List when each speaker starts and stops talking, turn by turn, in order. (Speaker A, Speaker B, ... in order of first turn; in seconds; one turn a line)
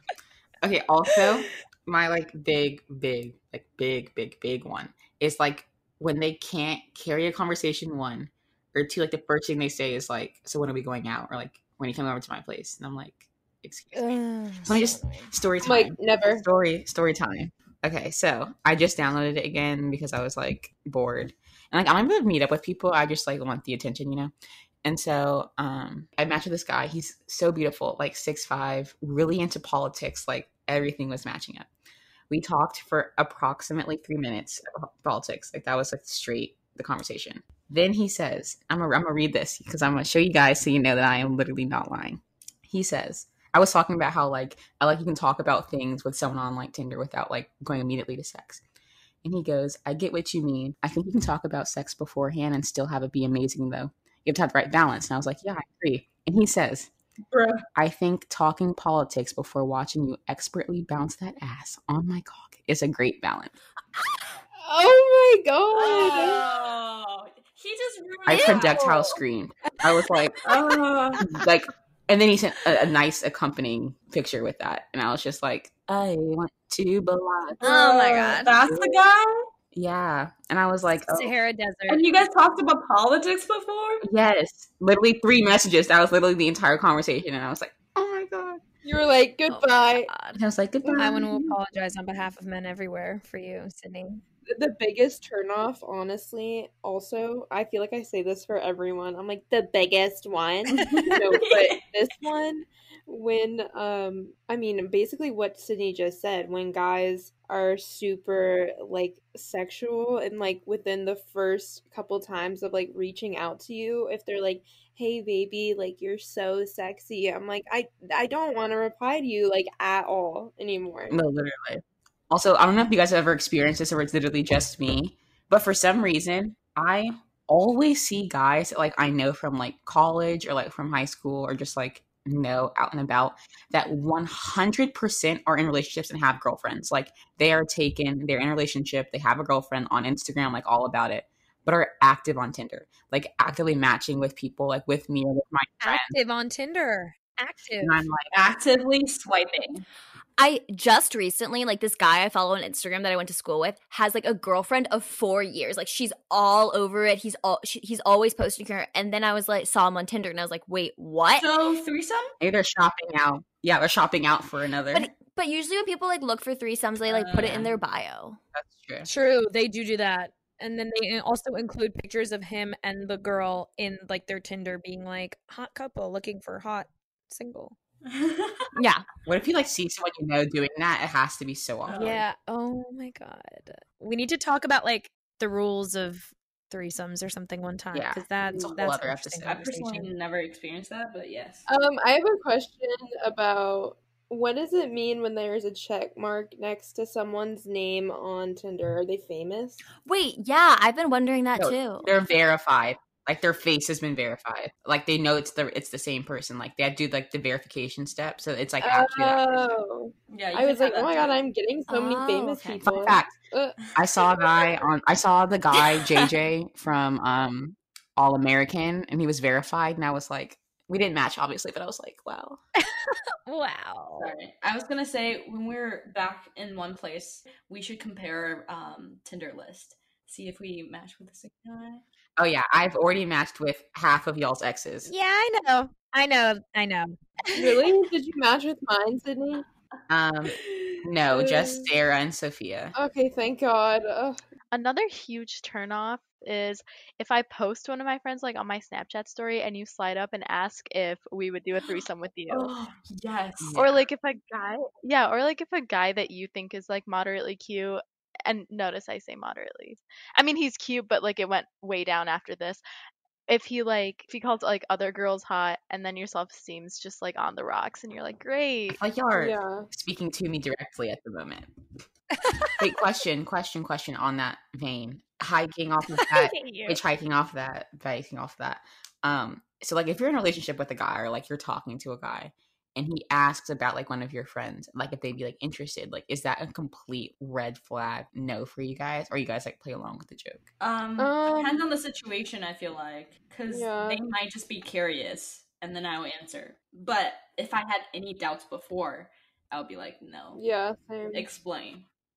Speaker A: 0.6-24.3
Speaker B: 13.9-15.3
Speaker C: 15.6-16.4
Speaker A: 24.8-31.7
Speaker A: 32.3-48.6
Speaker A: 49.2-56.9
Speaker D: 57.3-57.6
Speaker A: 57.8-63.5
Speaker C: 64.6-66.5
Speaker D: 65.7-69.2
Speaker A: 68.3-77.6
Speaker D: 70.2-70.8
Speaker E: 77.6-78.5
Speaker D: 77.7-79.3
Speaker A: 78.7-79.0
Speaker A: 79.7-81.3
Speaker B: 81.1-82.0
Speaker D: 81.9-84.0
Speaker A: 84.0-88.6
Speaker C: 88.8-90.1
Speaker E: 89.5-90.4
Speaker A: 90.3-91.5
Speaker C: 90.8-91.2
Speaker B: 91.0-94.2
Speaker C: 94.5-121.2
Speaker D: 100.7-101.8
Speaker A: 121.1-146.2
Speaker B: 145.8-148.0
Speaker A: 147.8-148.6
Speaker D: 148.4-149.8
Speaker E: 150.4-161.5
Speaker D: 161.4-162.3
Speaker A: 162.4-165.1
Speaker E: 164.9-168.4
Speaker D: 167.1-167.8
Speaker A: 168.5-169.1
Speaker B: 169.0-177.8
Speaker D: 178.1-178.7
Speaker E: 178.8-179.1
Speaker A: 179.2-182.2
Speaker D: 181.9-182.2
Speaker B: 181.9-190.1
Speaker A: 187.9-189.6
Speaker D: 189.4-191.7
Speaker C: 191.7-199.8
Speaker E: 200.1-202.1
Speaker A: 201.6-209.6
Speaker C: 208.8-213.8
Speaker D: 210.3-211.3
Speaker E: 211.9-212.8
Speaker A: 212.8-213.3
Speaker A: 213.9-222.6
Speaker B: 223.0-224.3
Speaker D: 224.2-232.0
Speaker A: 232.4-235.1
Speaker B: 235.1-237.7
Speaker C: 237.5-239.7
Speaker A: 240.1-242.9
Speaker C: 241.3-241.9
Speaker C: 242.9-244.4
Speaker F: 244.7-252.7
Speaker D: 252.5-254.0
Speaker A: 253.6-253.9
Speaker F: 253.8-262.8
Speaker F: 263.5-269.0
Speaker A: 268.9-271.7
Speaker C: 269.3-269.9
Speaker B: 272.4-272.7
Speaker A: 272.8-290.6
Speaker F: 276.5-277.0
Speaker D: 290.8-300.6
Speaker C: 291.2-291.8
Speaker C: 293.7-294.2
Speaker C: 300.6-301.5
Speaker D: 301.3-302.1